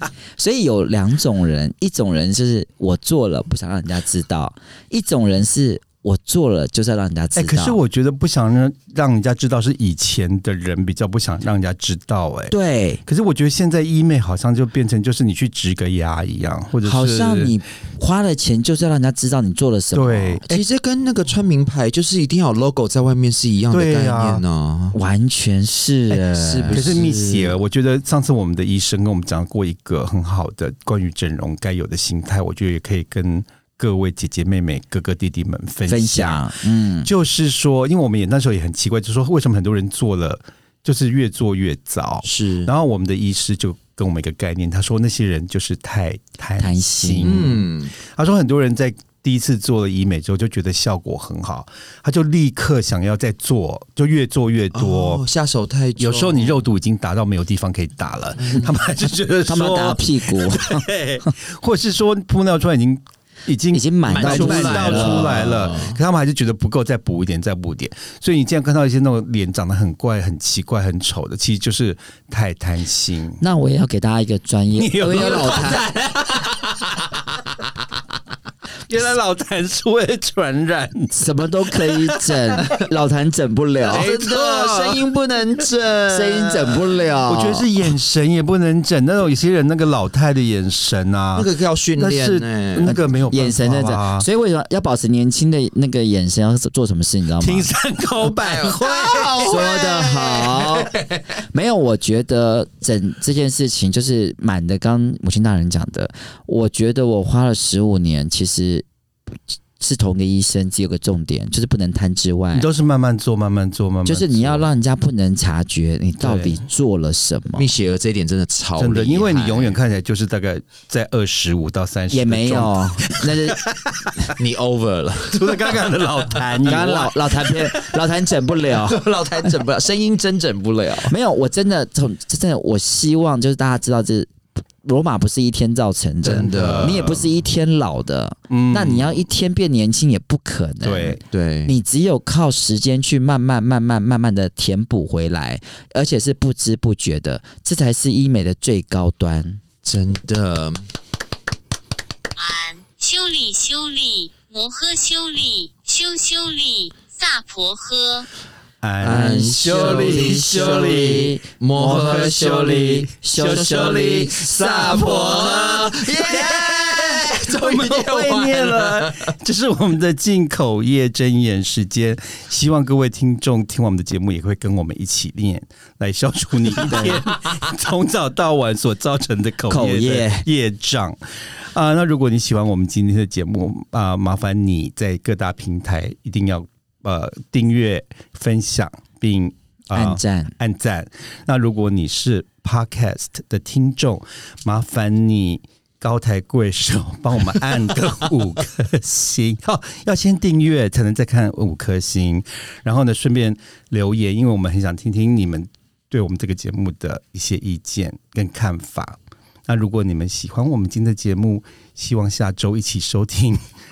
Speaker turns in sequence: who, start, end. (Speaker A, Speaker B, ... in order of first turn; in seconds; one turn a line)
Speaker A: 0.4-7.8
Speaker B: 7.4-17.5
Speaker A: 12.5-13.0
Speaker A: 16.8-20.6
Speaker B: 19.9-20.4
Speaker C: 20.5-25.0
Speaker B: 23.7-24.4
Speaker A: 24.9-27.1
Speaker C: 26.1-27.6
Speaker B: 26.7-36.5
Speaker A: 35.9-37.1
Speaker B: 37.0-55.2
Speaker C: 42.2-42.7
Speaker A: 46.6-47.4
Speaker C: 47.2-47.9
Speaker C: 54.7-56.6
Speaker B: 56.0-73.4
Speaker C: 58.4-58.7
Speaker A: 59.5-61.3
Speaker A: 63.7-65.3
Speaker C: 64.1-66.0
Speaker A: 73.4-75.9
Speaker B: 74.7-76.8
Speaker C: 75.0-76.6
Speaker B: 78.9-81.1
Speaker A: 81.1-84.1
Speaker B: 81.8-82.5
Speaker C: 83.9-87.2
Speaker B: 83.9-85.0
Speaker A: 86.1-87.7
Speaker B: 87.3-94.3
Speaker C: 91.3-93.0
Speaker A: 92.9-97.7
Speaker B: 97.4-99.5
Speaker C: 98.3-101.2
Speaker A: 99.5-100.9
Speaker A: 101.5-112.7
Speaker B: 112.5-114.7
Speaker A: 114.0-117.7
Speaker B: 116.2-116.6
Speaker C: 117.5-119.8
Speaker B: 118.8-124.4
Speaker A: 122.1-123.6
Speaker C: 124.4-125.9
Speaker B: 125.3-128.0
Speaker A: 126.6-129.0
Speaker C: 128.7-131.1
Speaker A: 131.1-149.6
Speaker C: 136.2-137.1
Speaker B: 136.2-137.3
Speaker B: 138.5-139.2
Speaker B: 140.8-141.2
Speaker C: 141.3-141.8
Speaker C: 149.8-150.9
Speaker D: 152.4-158.3
Speaker B: 158.8-213.6
Speaker C: 159.0-169.3
Speaker A: 159.0-165.2
Speaker A: 176.9-177.2
Speaker A: 179.7-180.5
Speaker A: 189.9-190.6